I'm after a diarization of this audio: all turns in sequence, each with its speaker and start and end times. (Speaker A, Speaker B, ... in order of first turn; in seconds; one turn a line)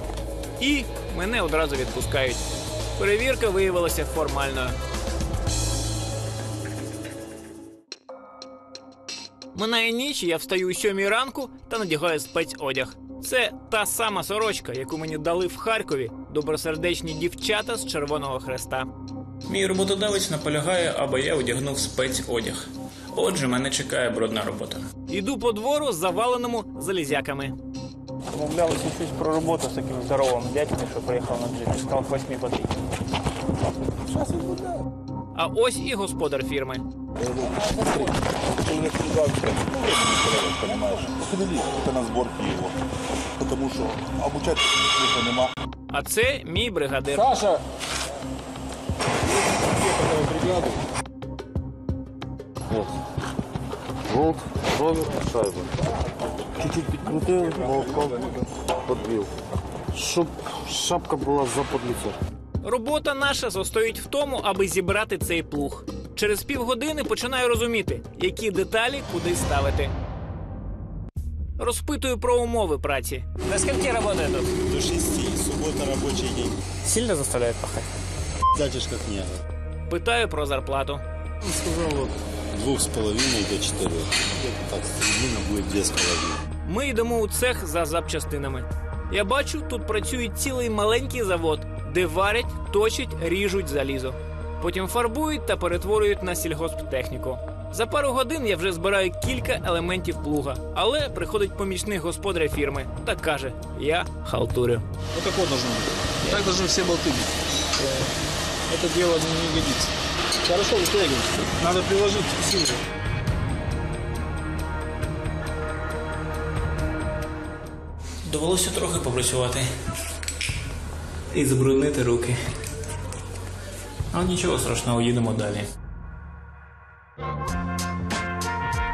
Speaker A: 0.6-2.4
Speaker A: 3.0-4.8
Speaker A: 9.5-18.9
Speaker B: 19.5-22.6
Speaker A: 23.2-27.6
Speaker B: 23.4-24.4
Speaker B: 28.3-32.7
Speaker C: 34.1-34.7
Speaker A: 35.4-36.8
Speaker C: 37.2-42.8
Speaker C: 43.4-45.5
Speaker A: 45.9-47.3
Speaker D: 54.1-55.7
Speaker D: 56.6-59.3
Speaker D: 59.9-62.1
Speaker A: 62.6-69.9
Speaker A: 71.6-73.3
Speaker E: 73.7-76.6
Speaker B: 76.8-77.9
Speaker E: 78.5-79.4
Speaker A: 79.9-81.0
Speaker E: 81.5-86.4
Speaker A: 86.7-104.8
Speaker F: 105.1-107.3
Speaker A: 106.2-106.5
Speaker F: 108.7-109.9
Speaker F: 110.4-112.8
Speaker B: 118.3-119.4
Speaker B: 121.4-122.1
Speaker B: 124.1-125.4